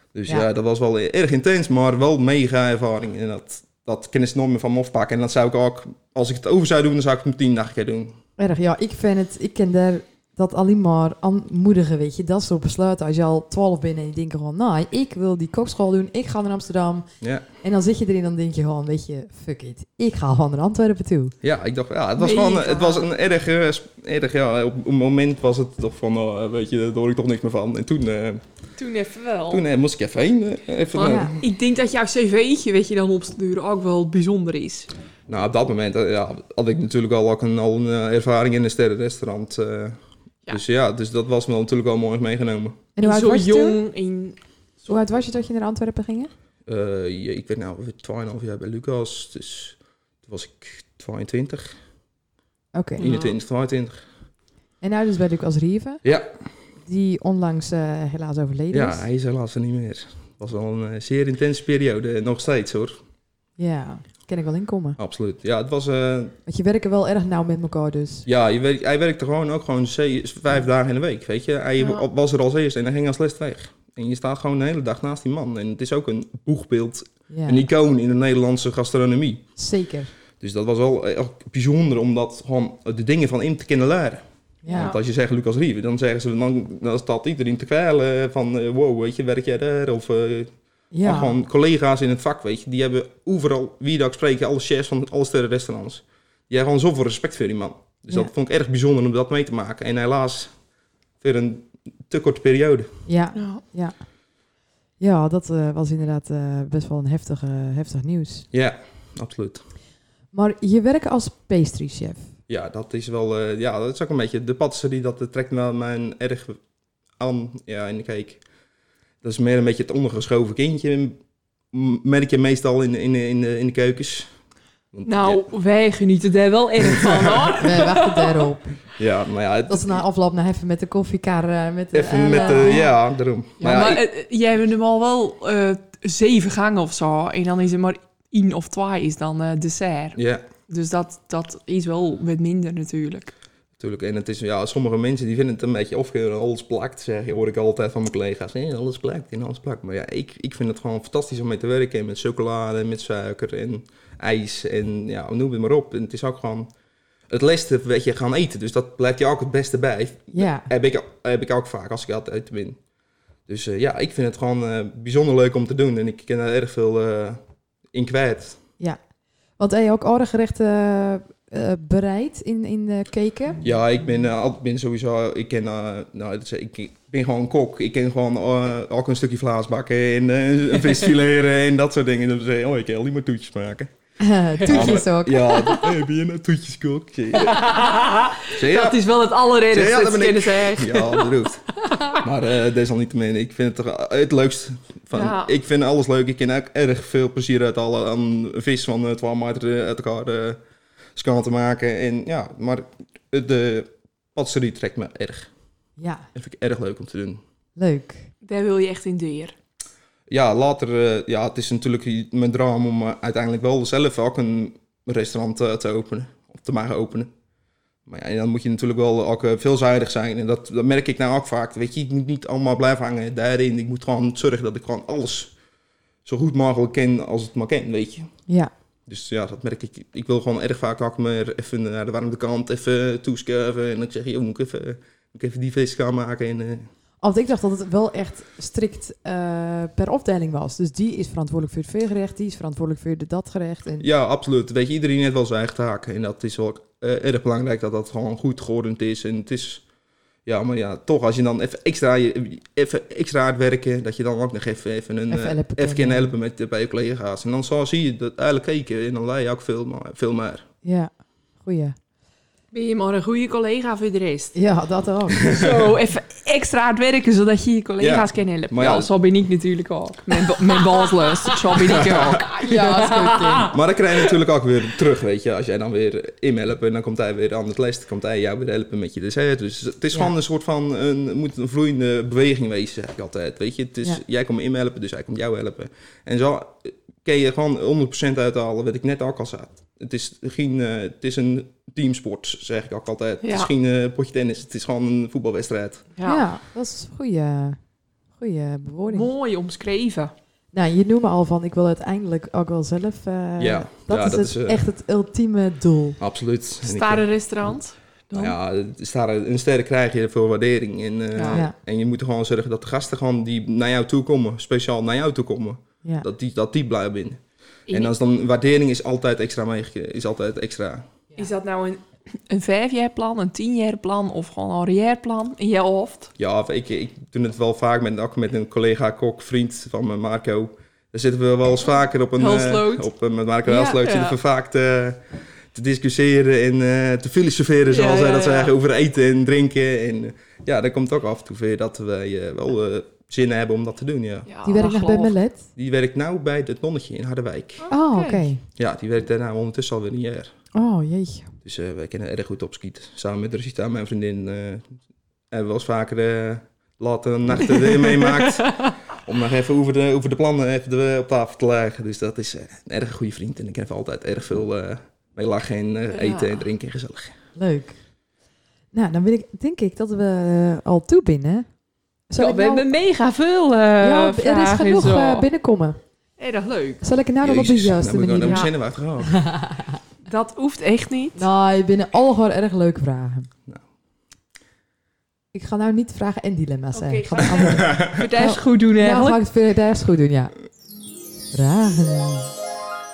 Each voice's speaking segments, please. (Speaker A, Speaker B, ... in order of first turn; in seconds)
Speaker A: 0.1-8.2, 21.4-28.4, 29.5-31.4, 35.3-42.8, 46.6-51.7, 53.0-54.0, 56.0-56.3, 58.7-63.0, 65.0-66.3, 68.2-79.4, 80.4-90.5, 91.0-100.5, 101.2-102.9, 108.5-109.6, 112.5-116.6, 117.2-118.4, 119.2-121.2, 121.7-124.3, 124.9-125.5, 126.8-127.5, 129.0-130.0, 131.9-134.0, 140.2-140.4, 143.8-156.7, 157.3-162.8, 163.5-167.4, 167.9-168.6, 173.6-183.9, 184.7-187.7, 188.5-189.1, 189.7-200.6, 201.2-205.5, 206.3-207.4, 210.3-217.3, 218.1-225.5, 226.2-228.3, 229.1-236.9, 244.0-249.8, 250.4-260.6, 265.4-265.9, 268.0-269.1, 271.8-272.5, 273.7-296.1, 303.6-304.8, 306.2-307.2, 308.3-321.1, 326.4-344.5, 345.8-347.8, 348.8-350.5, 351.6-354.9, 355.5-367.3, 377.4-379.4, 387.4-388.3
Speaker B: 8.4-17.1, 17.6-21.3, 31.0-31.4, 43.0-43.8, 44.9-46.3, 52.7-53.0, 54.8-56.0, 56.8-59.0, 63.6-65.0, 66.5-68.2, 77.3-77.6, 79.6-80.1, 84.6-84.9, 90.9-91.3, 103.0-104.0, 105.0-108.5, 110.3-112.2, 127.6-128.8, 129.7-132.8, 160.3-160.7, 169.6-173.6, 184.2-185.9, 206.0-206.2, 207.8-208.3, 237.2-244.1, 255.3-256.3, 260.8-261.1, 261.6-261.9, 264.5-265.5, 272.6-273.7, 296.2-297.8, 298.4-299.3, 300.7-306.2, 344.6-345.6, 347.9-348.6, 350.7-351.5, 367.6-368.0, 368.9-371.6, 372.3-372.9, 374.0-376.0, 377.0-378.7, 379.2-380.0, 381.4-383.5, 385.5-390.5, 391.5-392.5
Speaker C: 22.2-23.0, 28.8-29.6, 30.9-34.9, 43.0-45.0, 53.0-53.4, 71.8-72.0, 84.7-85.0, 103.3-103.6, 125.0-128.5, 132.5-132.9, 133.6-140.2, 140.7-143.3, 187.4-191.3, 191.8-192.2, 195.1-195.5, 208.4-209.5, 262.7-264.5, 265.4-273.8, 293.4-293.7, 296.1-296.4, 299.1-300.3, 306.8-308.6, 311.3-311.6, 317.9-318.1, 321.4-326.3, 332.4-333.1, 333.7-334.4, 337.9-338.7, 344.5-345.4, 347.8-348.5, 358.1-358.9, 366.1-366.7, 372.4-375.4, 376.4-377.0, 378.4-378.7, 380.2-381.4, 386.9-389.4